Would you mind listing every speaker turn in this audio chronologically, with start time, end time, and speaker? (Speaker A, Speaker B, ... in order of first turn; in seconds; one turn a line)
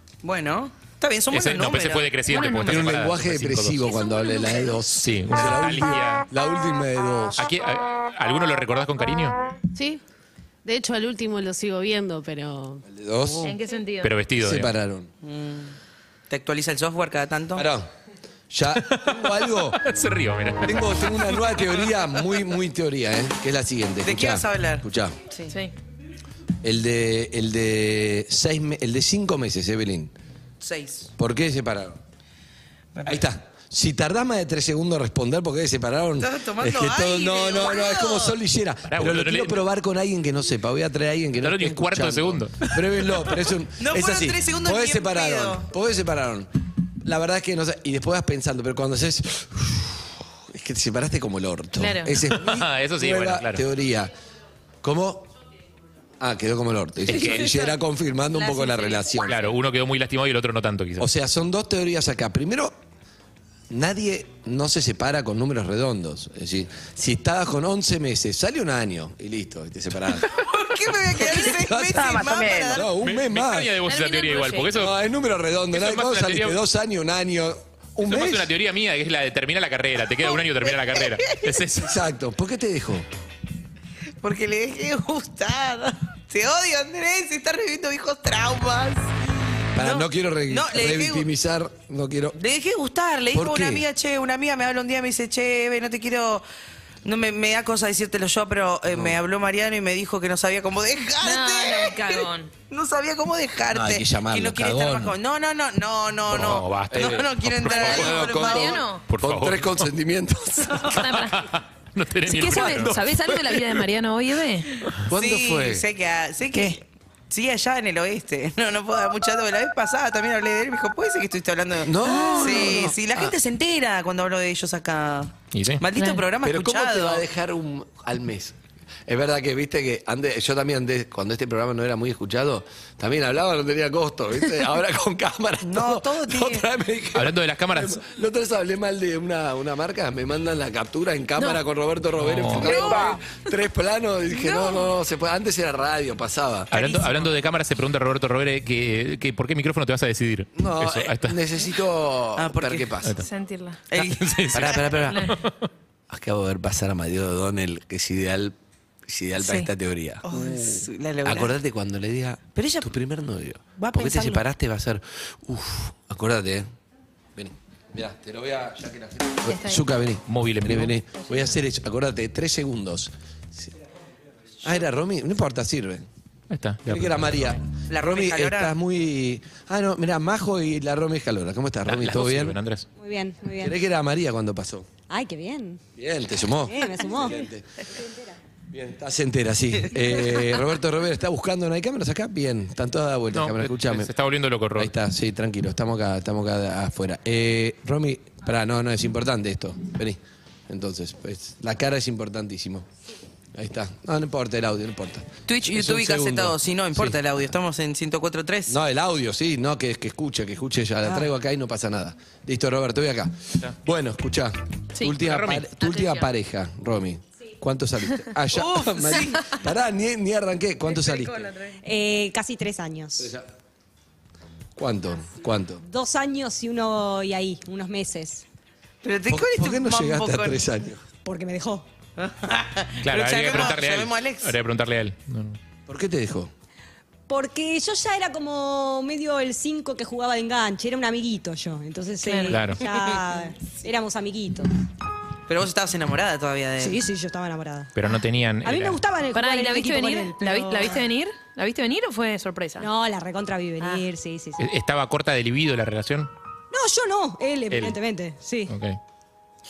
Speaker A: 0.2-2.1
Speaker B: 1.3-4.0
Speaker C: 2.3-2.7
Speaker D: 2.6-7.4
Speaker B: 4.9-6.2
Speaker B: 7.4-9.3
Speaker E: 9.7-10.0
Speaker E: 10.6-12.8
Speaker D: 12.8-13.6
Speaker C: 13.4-14.1
Speaker B: 14.0-14.7
Speaker D: 14.4-15.1
Speaker A: 15.2-15.7
Speaker A: 16.3-17.7
Speaker D: 17.6-17.9
Speaker D: 18.5-19.8
Speaker B: 18.9-21.4
Speaker D: 20.6-25.1
Speaker A: 24.0-25.5
Speaker D: 26.6-30.1
Speaker A: 30.6-31.1
Speaker D: 31.2-32.0
Speaker A: 32.9-33.2
Speaker D: 33.0-46.5
Speaker A: 36.2-38.4
Speaker B: 38.9-39.6
Speaker B: 41.4-43.4
Speaker A: 43.8-45.7
Speaker D: 47.0-54.1
Speaker C: 51.8-52.1
Speaker B: 52.2-53.6
Speaker D: 54.8-55.3
Speaker D: 56.2-59.3
Speaker B: 57.1-57.5
Speaker A: 58.3-59.1
Speaker B: 59.2-61.1
Speaker D: 61.0-62.8
Speaker D: 63.7-70.3
Speaker A: 70.3-72.9
Speaker D: 71.2-73.7
Speaker B: 73.0-75.0
Speaker C: 73.8-74.8
Speaker D: 74.7-78.5
Speaker B: 75.7-76.6
Speaker B: 78.0-82.0
Speaker A: 80.3-81.5
Speaker D: 81.8-83.1
Speaker A: 84.2-89.1
Speaker A: 89.7-91.3
Speaker D: 89.7-92.4
Speaker A: 92.4-96.4
Speaker D: 93.3-93.8
Speaker A: 97.0-108.8
Speaker D: 98.9-99.2
Speaker C: 101.2-102.5
Speaker D: 103.7-105.1
Speaker D: 106.3-111.0
Speaker B: 106.3-108.0
Speaker C: 107.7-109.0
Speaker B: 109.1-109.9
Speaker C: 110.8-111.5
Speaker B: 111.2-113.0
Speaker C: 112.2-114.8
Speaker D: 112.5-113.5
Speaker D: 115.0-115.8
Speaker A: 115.1-127.2
Speaker D: 121.8-123.3
Speaker C: 122.1-122.7
Speaker B: 125.5-125.8
Speaker C: 126.0-126.2
Speaker D: 126.4-128.5
Speaker D: 129.1-146.7
Speaker A: 135.6-136.7
Speaker B: 137.1-138.0
Speaker B: 142.2-142.7
Speaker A: 142.6-143.1
Speaker C: 142.7-143.2
Speaker A: 144.5-144.8
Speaker B: 146.7-151.4
Speaker A: 146.7-147.3
Speaker D: 150.6-153.1
Speaker A: 152.4-152.9
Speaker C: 153.2-153.8
Speaker A: 153.9-154.9
Speaker B: 153.9-155.6
Speaker D: 154.5-155.2
Speaker D: 156.1-158.5
Speaker D: 159.1-166.7
Speaker C: 159.4-159.7
Speaker A: 160.2-161.5
Speaker A: 162.6-162.9
Speaker A: 163.8-164.4
Speaker D: 167.3-173.7
Speaker C: 169.4-169.9
Speaker B: 170.2-170.9
Speaker C: 171.2-171.5
Speaker D: 174.6-176.1
Speaker B: 176.5-177.6
Speaker D: 176.8-182.6
Speaker A: 177.9-178.7
Speaker B: 181.8-182.9
Speaker F: 183.0-183.8
Speaker D: 183.6-184.9
Speaker F: 185.1-185.8
Speaker D: 186.0-187.6
Speaker F: 186.6-187.4
Speaker D: 188.7-194.1
Speaker B: 193.3-194.9
Speaker D: 194.8-202.8
Speaker D: 203.5-207.2
Speaker A: 205.5-208.8
Speaker D: 208.7-221.5
Speaker B: 215.2-215.7
Speaker C: 215.8-216.3
Speaker A: 218.5-219.4
Speaker F: 221.8-223.3
Speaker D: 223.2-223.5
Speaker D: 224.8-225.8
Speaker F: 225.8-228.4
Speaker A: 229.0-230.7
Speaker D: 229.3-231.0
Speaker F: 231.2-231.8
Speaker A: 232.2-234.5
Speaker B: 233.0-235.6
Speaker D: 235.9-236.5
Speaker F: 237.3-244.7
Speaker C: 242.2-242.6
Speaker B: 242.5-242.8
Speaker A: 245.5-247.0
Speaker F: 246.8-247.9
Speaker B: 247.9-249.0
Speaker F: 248.6-251.0
Speaker C: 249.3-252.9
Speaker F: 252.8-254.6
Speaker B: 254.6-256.3
Speaker F: 256.7-258.7
Speaker B: 257.7-258.0
Speaker B: 258.7-259.0